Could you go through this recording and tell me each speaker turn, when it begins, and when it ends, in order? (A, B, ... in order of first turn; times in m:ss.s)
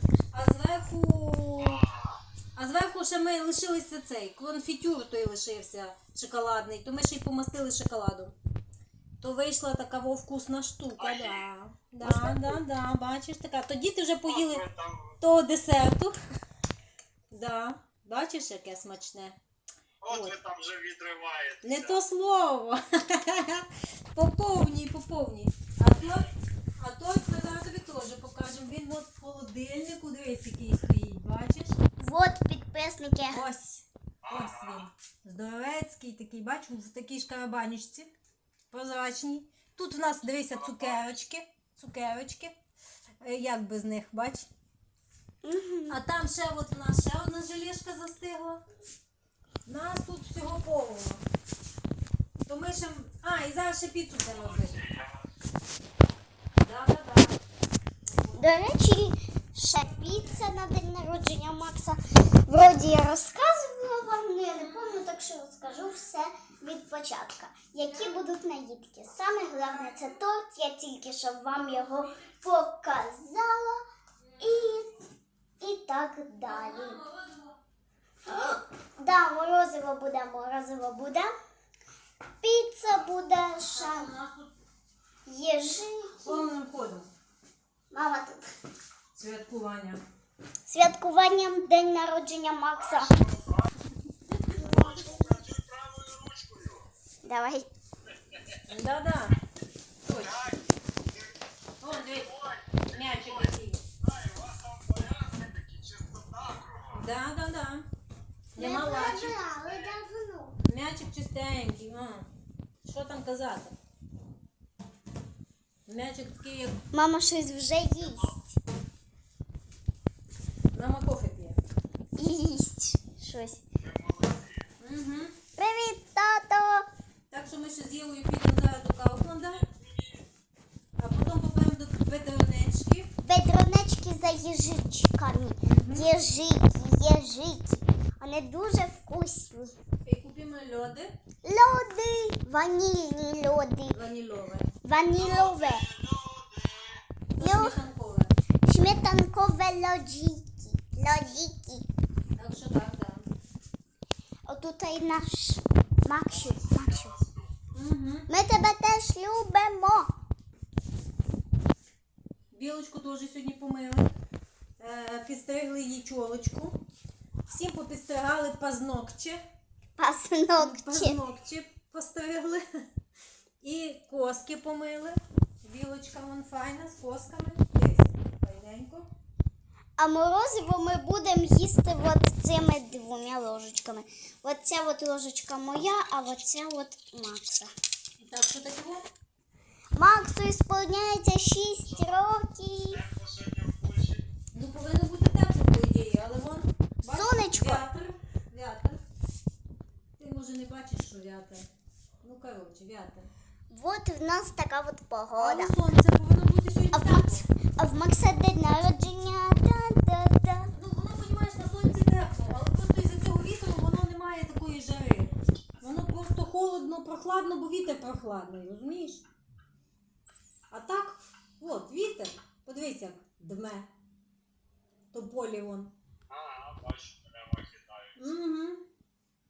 0:00.3-0:01.8 A
0:01.8-0:02.1 B
0:02.6-0:08.3 A
0:09.2-0:14.6 A
0:11.0-0:11.4 B
0:12.0-0:12.6 C
0:14.2-0:15.2 B
0:15.2-0:16.2 A
0:17.3-0:19.4 A
0:20.0-0:22.0 B
0:20.0-0:20.4 A
0:21.6-0:31.8 A
0:32.0-0:33.4 C
0:33.3-0:38.1 A
0:34.2-0:34.9 B
0:38.7-0:42.5 A
0:40.7-0:41.1 B
0:43.2-0:44.5 A
0:45.4-0:46.0 C
0:45.9-0:48.6 A
0:49.6-0:51.2 A
0:52.5-0:54.8 A
0:54.7-0:55.2 B
0:56.6-0:57.4 A
0:58.2-0:58.7 A
0:58.3-1:13.8 C
0:59.8-1:00.4 A
1:07.9-1:08.2 A
1:14.2-1:14.8 A
1:14.4-1:14.9 C
1:15.6-1:17.0 C
1:16.4-1:17.6 A
1:18.2-1:21.3 C
1:22.4-1:24.1 C
1:23.6-1:24.5 A
1:25.2-1:26.5 C
1:26.2-1:27.1 A
1:27.9-1:28.5 C
1:29.1-1:30.0 A
1:30.6-1:33.4 C
1:33.0-1:33.7 B
1:34.5-1:34.9 A
1:34.6-1:36.8 B
1:37.2-1:37.7 C
1:38.7-1:39.4 A
1:40.0-1:40.6 A
1:40.2-1:41.3 B
1:41.8-1:43.8 A
1:41.9-1:47.0 B
1:46.9-1:47.9 A
1:48.5-1:49.4 A
1:48.6-1:50.6 C
1:50.6-1:52.3 A
1:52.8-1:53.7 A
1:55.9-1:56.8 A
1:56.9-1:58.5 C
2:00.7-2:01.6 A
2:02.2-2:03.6 C
2:03.8-2:04.6 B
2:04.8-2:05.3 A
2:05.6-2:06.8 C
2:07.3-2:09.6 A
2:09.7-2:10.2 B
2:11.0-2:13.1 A
2:13.2-2:19.8 C
2:15.6-2:16.1 A
2:20.0-2:21.2 A
2:21.4-2:24.0 C
2:23.9-2:24.7 A
2:24.8-2:25.9 C
2:25.2-2:27.0 B
2:27.3-2:28.3 A
2:27.4-2:27.8 C
2:28.6-2:31.9 C
2:32.4-2:33.3 A
2:34.4-2:37.2 C
2:36.4-2:37.7 B
2:37.7-2:38.3 A
2:38.3-2:40.1 C
2:42.5-2:44.1 A
2:44.8-2:46.8 A
2:47.5-2:49.4 A
2:50.0-2:51.2 C
2:50.6-2:52.6 A
2:53.6-2:59.1 A
3:00.0-3:07.7 C
3:08.2-3:09.0 A
3:09.9-3:13.0 C
3:13.0-3:14.2 B
3:14.5-3:19.0 A
3:17.1-3:17.9 C
3:20.2-3:21.7 A
3:22.2-3:23.3 A
3:23.7-3:25.8 C
3:25.4-3:27.4 A
3:26.9-3:30.7 C
3:30.7-3:39.2 A
3:40.7-3:43.9 A
3:45.1-3:45.9 A
3:46.3-3:48.2 B
3:48.2-3:48.8 A